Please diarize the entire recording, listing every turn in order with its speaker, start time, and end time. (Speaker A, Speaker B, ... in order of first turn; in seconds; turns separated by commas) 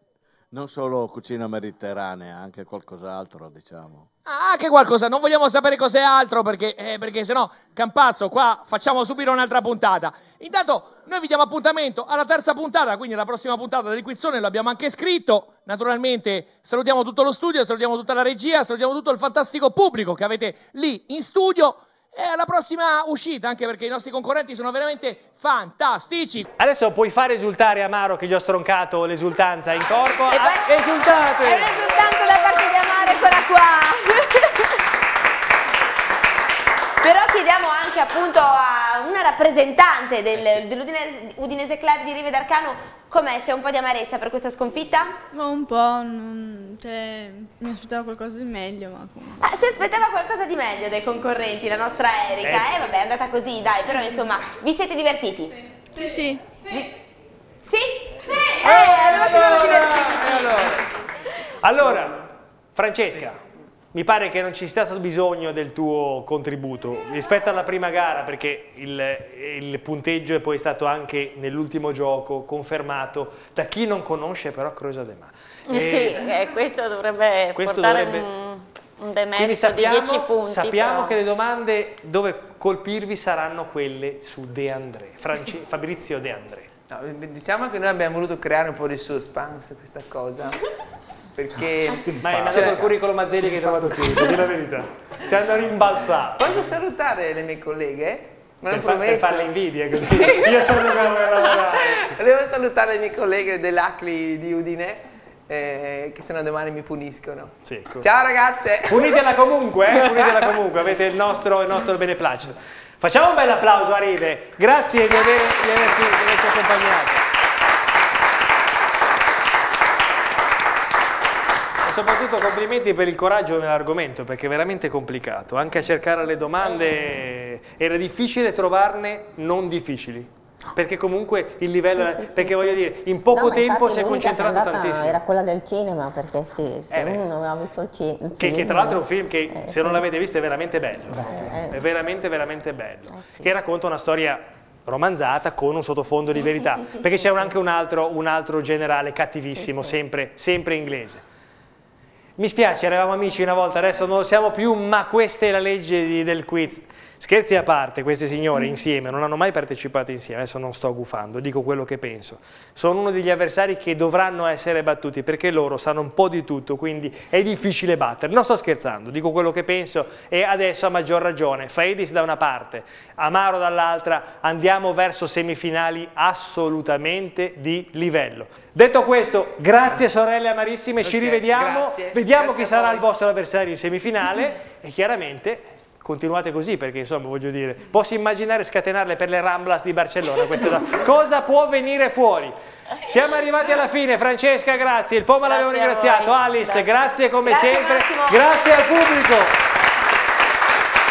Speaker A: 0.5-4.1, Speaker B: 4.2-26.5, Speaker C: 26.6-31.8, Speaker D: 30.3-30.7, Speaker D: 31.4-34.0, Speaker D: 37.0-45.1, Speaker C: 40.3-40.6, Speaker E: 45.3-49.4, Speaker D: 49.4-55.6, Speaker C: 52.4-52.7, Speaker E: 55.9-56.4, Speaker D: 57.6-60.6, Speaker C: 58.6-60.8, Speaker C: 61.6-63.4, Speaker C: 63.9-76.3, Speaker F: 75.7-81.2, Speaker C: 77.5-78.2, Speaker C: 79.4-86.7, Speaker G: 86.9-90.6, Speaker G: 91.3-94.5, Speaker C: 92.2-96.6, Speaker G: 96.4-109.3, Speaker C: 98.7-102.2, Speaker C: 107.6-108.1, Speaker C: 108.9-117.2, Speaker G: 109.9-110.5, Speaker C: 121.8-135.2, Speaker H: 131.9-140.0, Speaker C: 136.9-137.2, Speaker C: 138.4-151.2, Speaker H: 141.2-141.8, Speaker H: 143.1-143.5, Speaker H: 146.3-147.6, Speaker H: 149.5-149.9, Speaker C: 152.4-199.6, Speaker G: 181.0-183.0, Speaker F: 195.5-196.8, Speaker D: 197.4-198.5